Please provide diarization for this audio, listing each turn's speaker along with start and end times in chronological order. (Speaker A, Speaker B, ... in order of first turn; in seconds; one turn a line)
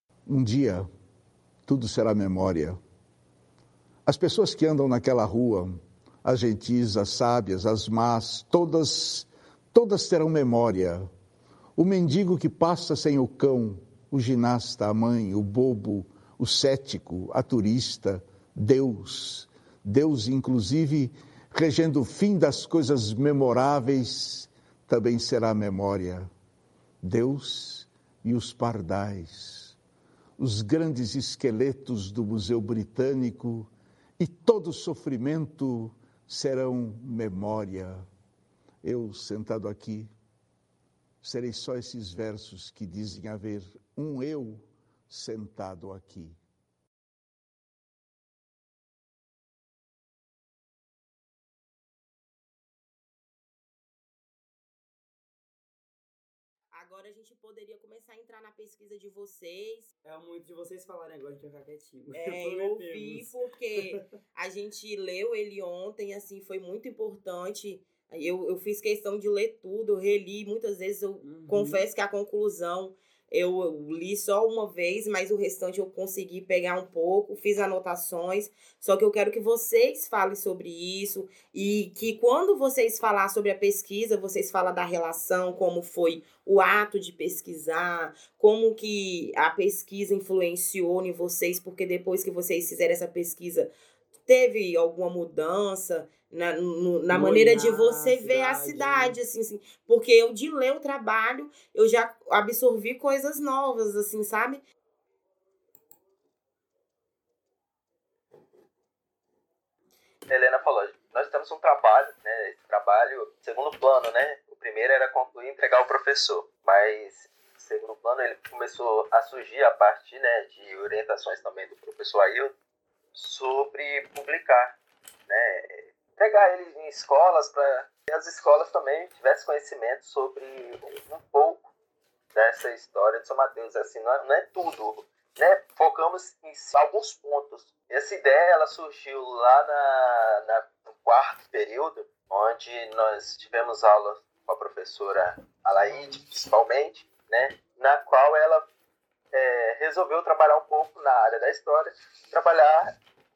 Speaker A: 0.3-0.9
Speaker A: 1.6-2.8
Speaker A: 4.0-11.1
Speaker A: 11.8-26.3
Speaker A: 27.0-29.8
Speaker A: 30.4-38.0
Speaker A: 38.8-40.1
Speaker A: 41.2-46.4
Speaker B: 56.7-59.9
Speaker C: 60.0-64.0
Speaker B: 62.1-93.7
Speaker C: 71.2-71.9
Speaker B: 94.2-104.6
Speaker C: 97.1-99.2
Speaker D: 110.3-122.5
Speaker D: 123.1-124.8
Speaker D: 125.3-131.7
Speaker D: 132.3-148.7
Speaker D: 149.3-152.9